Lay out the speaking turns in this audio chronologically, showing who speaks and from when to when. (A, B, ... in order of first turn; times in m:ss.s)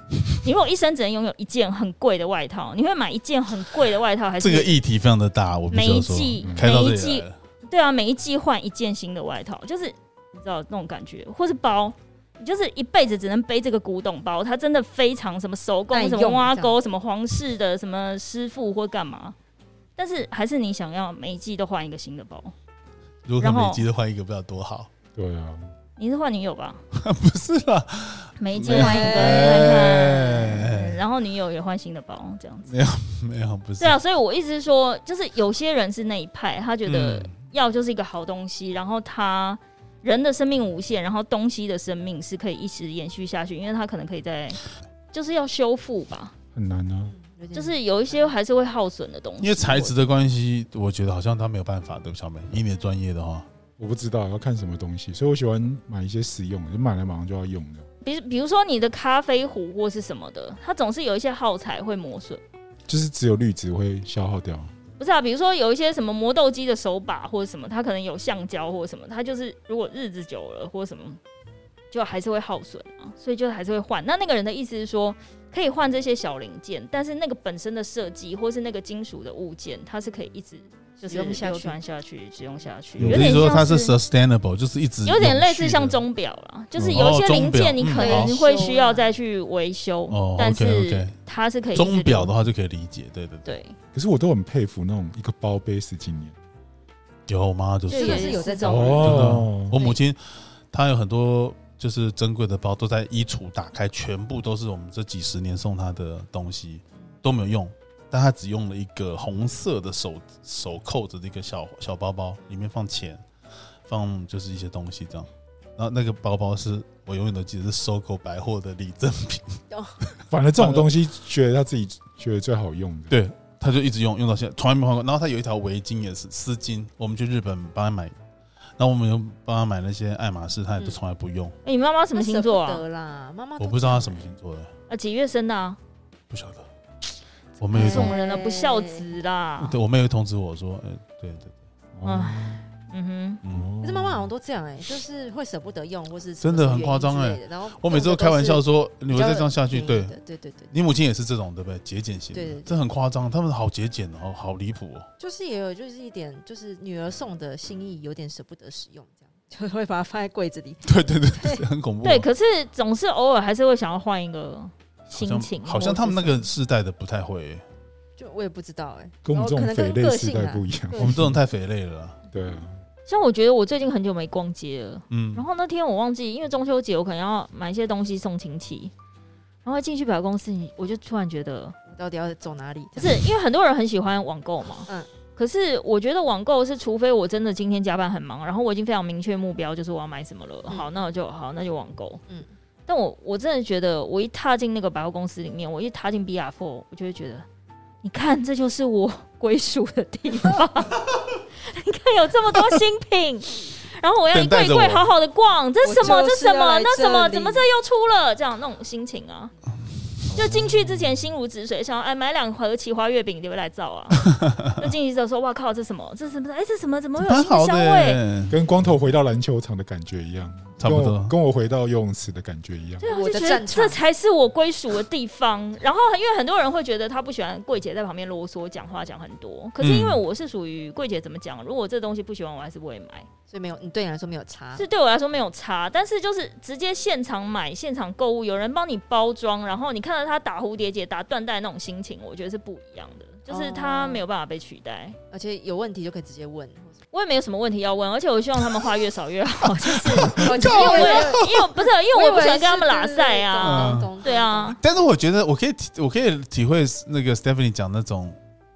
0:00.4-0:04.8 A
0:04.4-0:07.4 B
0:05.7-0:19.4 A
0:06.4-0:06.7 C
0:15.9-0:16.8 D
0:20.0-0:22.5 A
0:23.3-0:24.9 B
0:23.4-0:23.9 A
0:25.2-0:25.7 C
0:26.0-0:26.8 A
0:26.9-0:31.0 B
0:28.4-0:32.7 A
0:28.6-0:29.9 D
0:32.7-0:34.0 B
0:33.8-0:44.6 A
0:36.9-0:37.3 B
0:45.1-0:46.3 A
0:46.5-0:47.2 C
0:47.0-0:48.3 D
0:47.5-0:50.0 A
0:49.4-0:53.5 B
0:53.8-0:57.8 C
0:58.0-1:02.4 A
1:02.9-1:04.7 C
1:05.0-1:11.2 A
1:11.9-1:24.0 A
1:21.0-1:21.8 D
1:23.0-1:23.5 C
1:23.0-1:26.0 B
1:25.0-1:32.4 A
1:26.8-1:28.3 B
1:27.8-1:29.1 D
1:30.1-1:31.2 B
1:31.7-1:33.5 B
1:33.4-1:33.8 A
1:33.9-1:36.4 C
1:37.3-1:53.2 B
1:37.9-1:39.2 A
1:37.9-1:40.0 D
1:38.6-1:39.8 C
1:53.9-2:00.9 B
1:59.7-2:00.0 D
2:00.3-2:03.1 C
2:03.1-2:08.2 B
2:08.8-2:11.6 B
2:11.6-2:12.8 A
2:12.1-2:14.4 D
2:13.6-2:14.7 B
2:14.9-2:15.8 A
2:16.3-2:16.7 B
2:17.6-2:18.2 B
2:17.7-2:19.0 D
2:17.7-2:19.8 A
2:19.6-2:21.6 B
2:22.0-2:22.7 C
2:22.0-2:23.4 A
2:23.4-2:23.7 B
2:23.5-2:24.3 C
2:23.8-2:30.7 D
2:26.4-2:30.2 B
2:30.7-2:35.1 B
2:32.3-2:32.8 D
2:35.2-2:41.6 D
2:40.8-2:42.3 B
2:42.0-2:46.4 A
2:45.1-2:47.6 B
2:48.2-2:51.3 D
2:49.2-2:51.4 C
2:51.0-2:52.2 B
2:52.3-2:52.8 C
2:53.1-2:58.9 A
2:55.1-2:55.4 B
2:59.6-3:01.8 A
3:01.9-3:03.3 D
3:03.0-3:12.2 A
3:12.9-3:17.5 A
3:18.0-3:29.5 A
3:24.3-3:25.1 B
3:25.8-3:27.7 D
3:30.3-3:38.2 A
3:37.2-3:38.6 B
3:38.5-3:43.1 C
3:40.8-3:41.3 B
3:43.0-3:53.3 A
3:43.0-3:44.0 D
3:49.8-3:50.2 B
3:53.5-3:54.8 D
3:54.8-4:05.2 A
4:03.5-4:04.2 D
4:05.3-4:07.0 D
4:07.1-4:14.8 A
4:10.2-4:11.6 B
4:10.3-4:14.8 D
4:13.6-4:14.1 B
4:14.8-4:18.4 B